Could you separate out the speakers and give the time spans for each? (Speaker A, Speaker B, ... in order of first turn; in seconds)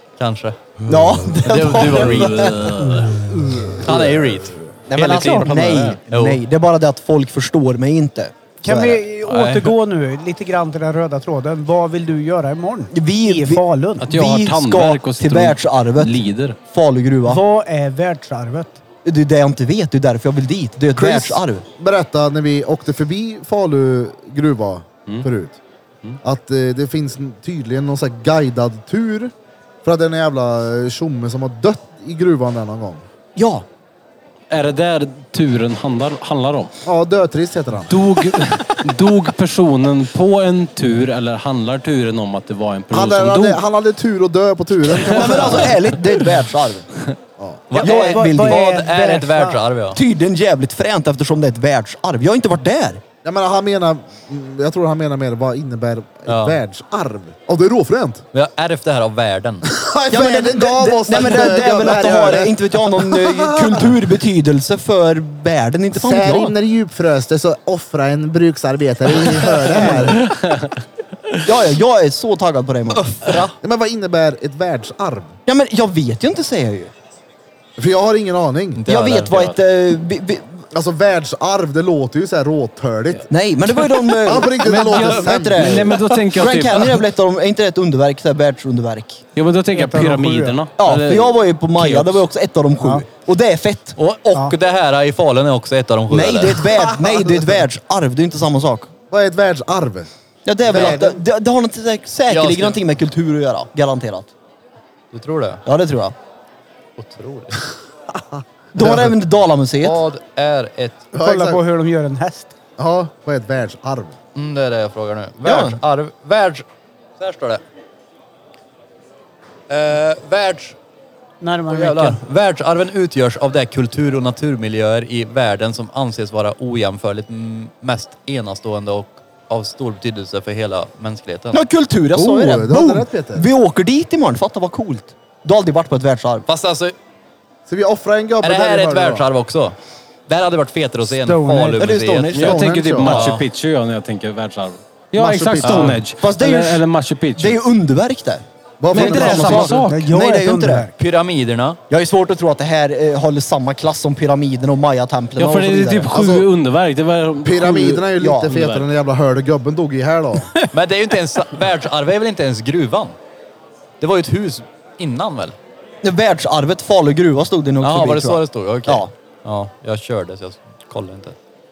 Speaker A: 0.2-0.6, 1.3-6.4, 9.2-9.7, 47.7-50.0, 56.3-56.6, 58.3-59.6, 72.9-73.5, 78.8-79.5, 94.0-96.7, 100.7-101.0, 102.3-102.8, 105.1-105.6, 107.0-107.6, 109.8-111.0, 114.3-116.6, 117.2-117.6, 119.7-120.8, 121.7-131.6, 136.5-136.9, 138.4-139.7, 140.3-142.4, 143.1-143.4, 145.6-146.0, 151.0-151.8, 160.7-163.1, 164.0-165.5, 167.8-171.3
Speaker B: 0.8-2.9, 3.6-4.2, 4.8-9.1, 12.9-17.4, 19.0-21.6, 33.4-33.6, 45.0-46.9, 47.8-48.7, 49.9-53.0, 60.1-66.5, 71.4-73.4, 75.5-76.9, 78.8-80.6, 83.3-89.2, 90.8-94.0, 96.1-98.9, 100.5-104.3, 105.7-106.1, 108.7-110.0, 115.4-115.8, 131.5-136.4, 141.8-142.7, 146.1-146.8, 147.4-150.9, 151.9-156.2, 158.2-158.5, 166.0-169.1
Speaker C: 2.8-3.7, 8.6-14.1, 17.3-18.8, 47.7-49.5, 89.7-90.6, 92.8-93.0, 111.2-112.5, 121.4-122.2, 141.1-141.8, 149.0-150.9
Speaker D: 14.0-16.6, 34.5-36.7, 37.9-43.6, 44.9-46.1, 70.4-70.7, 84.3-87.1, 89.3-92.2, 142.3-147.6, 148.9-150.0, 155.3-158.8
Speaker E: 20.9-25.6, 26.2-29.3, 29.8-33.0, 36.8-38.0, 42.9-45.8, 47.4-47.7, 53.2-58.2, 59.6-63.9, 65.9-70.2, 73.6-75.3, 77.8-78.8, 80.7-83.2, 84.2-85.9, 96.7-97.7, 99.1-100.1, 100.6-101.2, 108.8-109.1, 111.1-111.6, 112.8-114.1, 132.1-133.5, 137.7-139.3, 142.3-143.3, 145.1-146.0, 148.8-149.8, 156.1-156.5, 157.4-160.5